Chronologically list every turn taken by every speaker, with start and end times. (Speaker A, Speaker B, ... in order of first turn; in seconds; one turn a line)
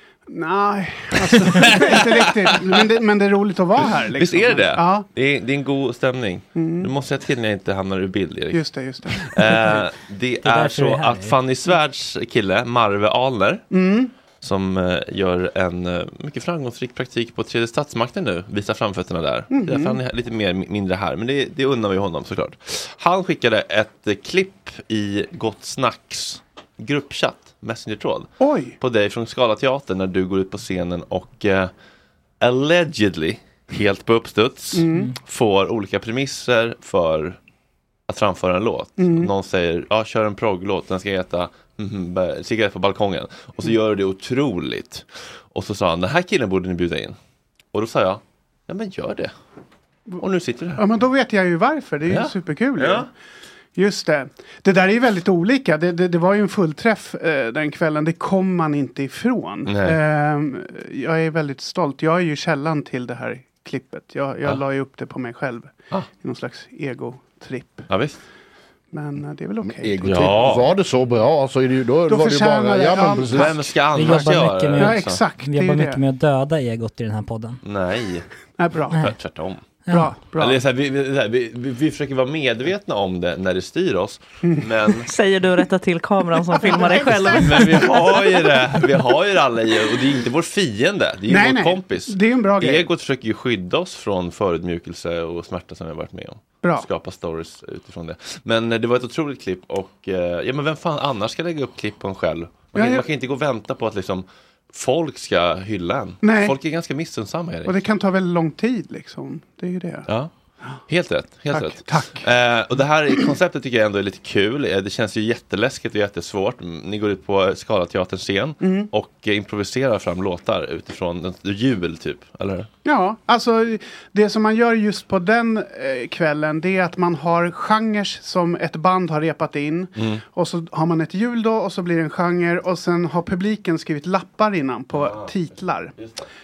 Speaker A: 0.3-5.1
Speaker B: 1.3-2.8
Speaker B: 4.0-13.6
Speaker A: 6.5-6.9
Speaker A: 8.5-9.3
Speaker C: 10.4-11.4
Speaker A: 13.7-14.1
Speaker B: 14.4-31.7
Speaker A: 19.5-20.0
Speaker A: 28.4-28.8
Speaker B: 32.4-37.4
Speaker A: 34.7-35.1
Speaker B: 38.1-47.2
Speaker A: 39.0-39.3
Speaker B: 47.7-49.3
Speaker B: 50.2-50.8
Speaker A: 50.8-53.1
Speaker B: 52.1-53.1
Speaker A: 53.8-67.9
Speaker B: 59.6-60.0
Speaker B: 67.9-68.2
Speaker A: 68.9-70.4
Speaker D: 69.6-73.6
Speaker B: 70.0-70.7
Speaker A: 72.1-76.0
Speaker B: 73.3-75.2
Speaker C: 73.9-77.6
Speaker B: 77.6-78.2
Speaker A: 78.6-79.0
Speaker B: 78.9-79.6
Speaker A: 79.9-80.6
Speaker B: 80.3-85.1
Speaker A: 84.4-84.7
Speaker E: 85.1-87.9
Speaker A: 86.5-87.9
Speaker B: 87.3-107.8
Speaker A: 91.3-92.9
Speaker A: 96.6-96.9
Speaker A: 102.7-103.1
Speaker A: 106.2-106.5
Speaker A: 107.7-110.1
Speaker B: 110.9-122.7
Speaker A: 111.5-112.3
Speaker A: 118.6-118.9
Speaker A: 122.8-135.9
Speaker B: 130.0-130.2
Speaker B: 135.0-136.3